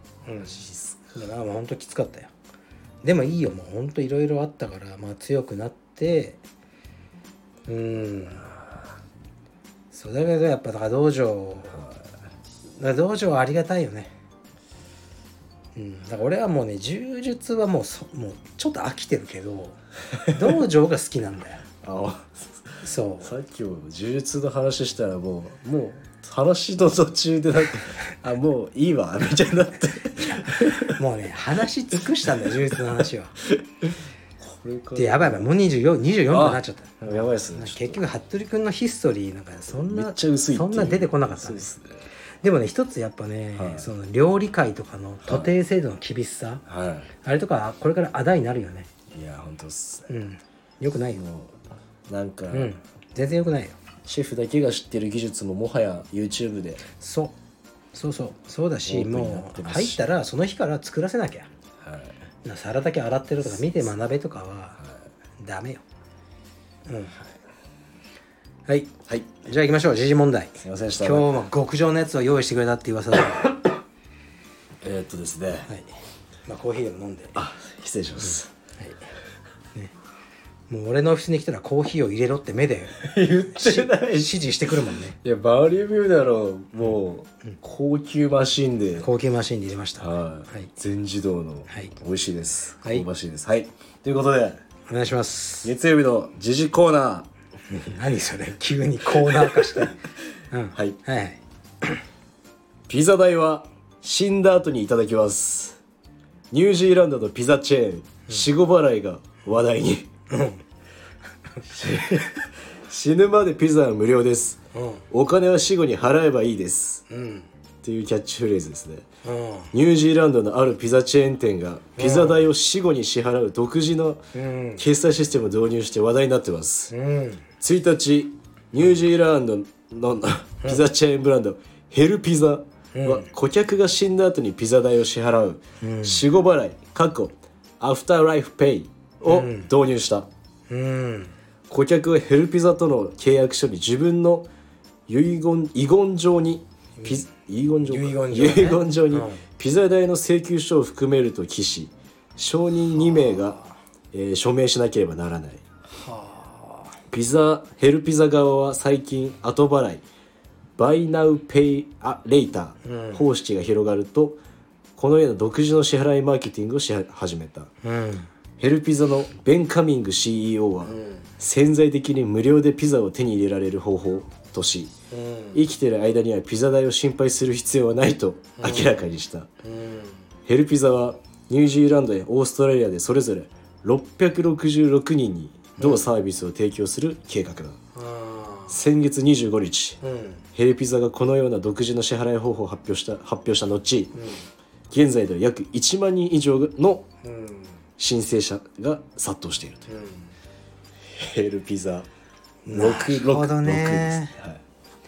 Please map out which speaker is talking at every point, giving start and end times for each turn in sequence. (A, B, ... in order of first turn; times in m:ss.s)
0:00.2-0:00.6 A
0:00.4-0:01.2 B
0:01.1-0:02.3 A
0:03.0-0:06.4 A
0:07.7-0:08.5 A
0:08.4-0:08.9 B
0:09.9-0:11.8 A
0:11.7-0:12.1 B
0:12.8-0:14.1 A
0:15.7-0:21.6 A
0:20.2-0:20.4 B
0:21.8-0:31.0 B
0:22.8-0:23.3 A
0:30.1-0:33.4 A
0:33.4-0:35.5 B
0:34.9-0:41.7 A
0:36.3-0:38.0 B
0:39.7-0:42.0 B
0:42.4-0:46.6 A
0:43.5-0:43.9 B
0:45.2-0:45.5 B
0:46.6-0:47.1 B
0:47.2-0:48.9 A
0:49.1-0:50.1 B
0:50.1-0:51.2 A
0:51.2-0:52.7 B
0:52.5-0:53.8 A
0:54.0-0:56.8 B
0:57.0-0:57.3 A
0:57.9-1:01.5 A
0:58.8-1:00.0 B
1:01.8-1:02.2 B
1:02.4-1:04.8 A
1:03.4-1:03.8 B
1:04.8-1:05.0 B
1:05.4-1:05.8 A
1:06.8-1:07.2 A
1:08.7-1:13.5 A
1:09.0-1:09.4 B
1:10.6-1:11.4 B
1:14.8-1:15.7 B
1:16.4-1:17.4 A
1:17.3-1:18.5 B
1:20.7-1:25.2 A
1:22.9-1:24.4 B
1:25.2-1:29.1 B
1:29.0-1:30.7 A
1:30.0-1:34.6 B
1:31.7-1:31.9 A
1:34.9-1:35.7 A
1:35.6-1:37.3 B
1:37.7-1:42.0 A
1:39.2-1:39.9 B
1:42.9-1:45.8 B
1:46.5-1:50.1 B
1:50.3-1:50.6 A
1:51.6-1:57.0 B
1:54.7-1:55.0 A
1:57.1-1:57.5 A
1:57.8-1:59.0 B
1:59.2-1:59.7 A
1:59.7-2:04.2 B
2:02.0-2:02.4 A
2:04.3-2:04.8 A
2:04.8-2:06.9 B
2:06.9-2:07.4 A
2:07.6-2:20.3 B
2:12.9-2:13.3 A
2:15.8-2:16.2 A
2:19.2-2:19.7 A
2:20.7-2:21.3 A
2:21.7-2:24.5 B
2:25.1-2:33.6 B
2:27.0-2:27.2 A
2:27.8-2:29.4 A
2:32.9-2:33.8 A
2:34.1-2:35.6 B
2:35.9-2:37.0 A
2:37.1-2:40.0 B
2:40.8-2:44.4 B
2:42.8-2:43.2 A
2:45.0-2:47.7 B
2:47.8-2:48.3 A
2:48.6-2:54.9 B
2:50.8-2:51.3 A
2:55.1-2:55.6 A
2:55.5-2:59.5 B
2:58.6-2:59.0 A
2:59.6-3:00.2 A
3:00.4-3:07.8 B
3:05.8-3:06.0 A
3:07.9-3:08.8 A
3:08.7-3:10.0 B
3:10.0-3:10.4 A
3:10.5-3:14.2 B
3:14.1-3:14.4 A
3:14.9-3:17.1 B
3:17.2-3:17.8 A
3:18.0-3:19.9 B
3:19.9-3:20.3 A
3:21.0-3:22.1 B
3:22.6-3:24.4 A
3:22.7-3:24.6 B